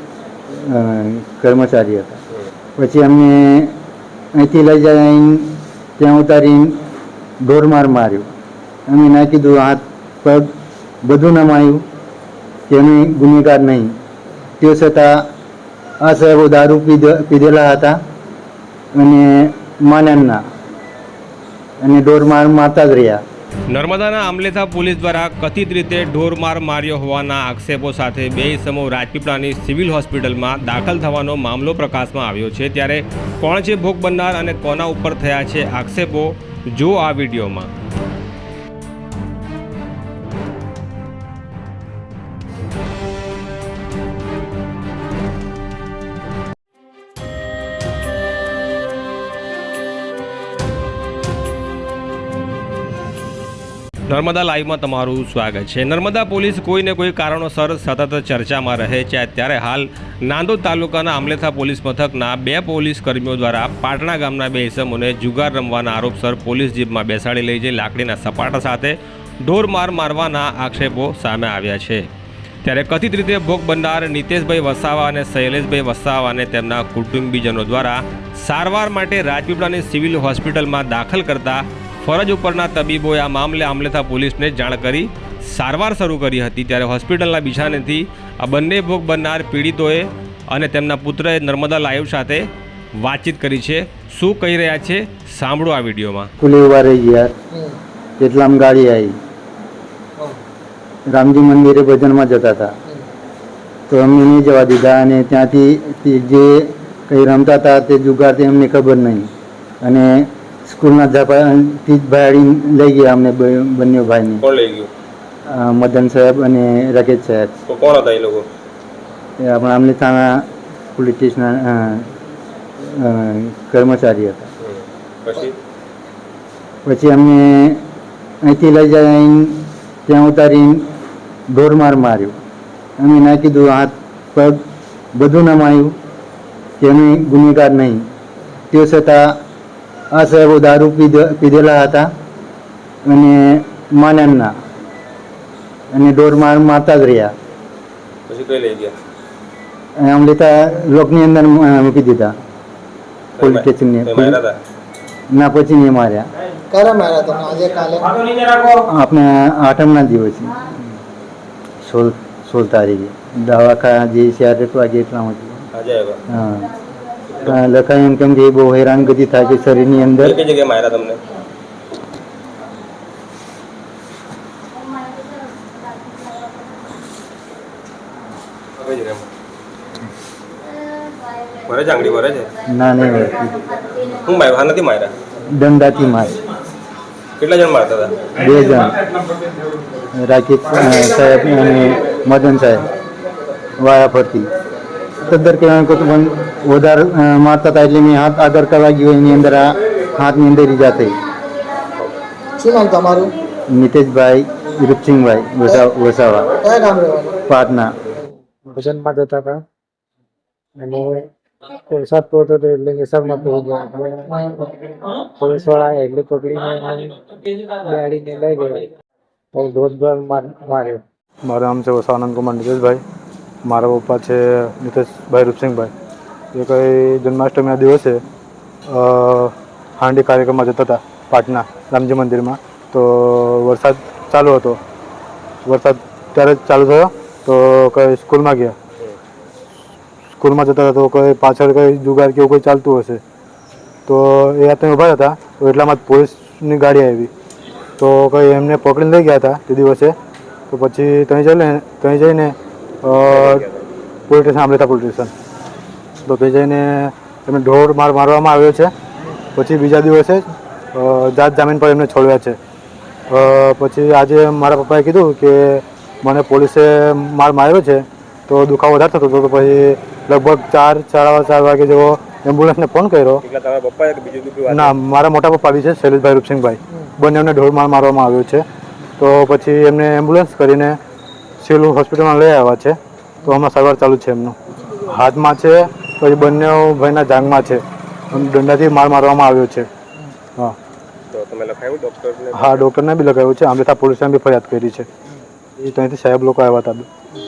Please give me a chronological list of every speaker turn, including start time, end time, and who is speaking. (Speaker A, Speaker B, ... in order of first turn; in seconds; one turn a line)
Speaker A: 0.5-2.2
Speaker A: 2.8-3.7
Speaker A: 4.4-6.8
Speaker A: 7.4-8.3
Speaker A: 8.9-10.5
Speaker A: 11.0-11.8
Speaker A: 12.7-13.9
Speaker A: 14.6-15.2
Speaker A: 16.0-18.0
Speaker A: 18.9-20.4
Speaker A: 21.8-23.2
Speaker B: 23.7-37.7
Speaker B: 54.1-72.1
Speaker B: 72.7-92.4
Speaker B: 93.0-96.3
Speaker A: 96.4-97.3
Speaker A: 98.2-99.2
Speaker A: 101.1-102.7
Speaker A: 103.9-109.3
Speaker A: 109.8-114.4
Speaker B: 114.4-114.9
Speaker A: 115.5-117.5
Speaker B: 117.7-118.5
Speaker A: 119.4-122.1
Speaker A: 122.8-124.5
Speaker B: 124.6-125.5
Speaker A: 126.8-127.8
Speaker A: 128.4-130.9
Speaker A: 131.5-132.4
Speaker A: 133.0-134.6
Speaker A: 135.2-135.9
Speaker A: 136.8-138.0
Speaker A: 138.7-139.4
Speaker A: 140.1-142.1
Speaker A: 143.1-144.5
Speaker A: 145.9-147.3
Speaker B: 148.3-148.9
Speaker A: 150.0-152.3
Speaker B: 153.4-154.6
Speaker A: 153.4-154.4
Speaker A: 155.3-156.3
Speaker C: 156.7-158.3
Speaker A: 158.7-160.7
Speaker A: 161.8-165.6
Speaker B: 165.7-166.2
Speaker A: 166.3-166.7
Speaker A: 167.4-170.3
Speaker B: 170.2-171.2
Speaker B: 178.8-179.3
Speaker B: 181.7-182.5
Speaker A: 182.7-183.7
Speaker B: 184.0-185.1
Speaker A: 185.5-186.3
Speaker B: 187.4-188.3
Speaker A: 188.3-189.0
Speaker A: 190.2-192.9
Speaker A: 193.8-194.5
Speaker A: 195.3-201.2
Speaker C: 202.6-203.3
Speaker A: 203.7-206.6
Speaker C: 206.6-207.4
Speaker A: 207.5-207.9
Speaker D: 208.7-209.6
Speaker D: 210.8-218.9
Speaker D: 219.5-221.0
Speaker E: 221.4-223.0
Speaker E: 223.7-225.9
Speaker E: 226.6-228.2
Speaker E: 228.9-234.8
Speaker E: 235.7-238.8
Speaker E: 240.3-243.2
Speaker E: 244.1-247.3
Speaker E: 248.0-250.2
Speaker E: 250.7-253.7
Speaker B: 253.1-253.9
Speaker E: 254.3-255.3
Speaker E: 256.2-258.9
Speaker E: 259.6-262.6
Speaker E: 263.3-273.4
Speaker B: 273.4-274.9
Speaker E: 274.7-278.6
Speaker E: 279.2-281.0
Speaker E: 281.6-289.9
Speaker B: 291.3-292.9
Speaker E: 292.5-295.1
Speaker E: 295.8-297.1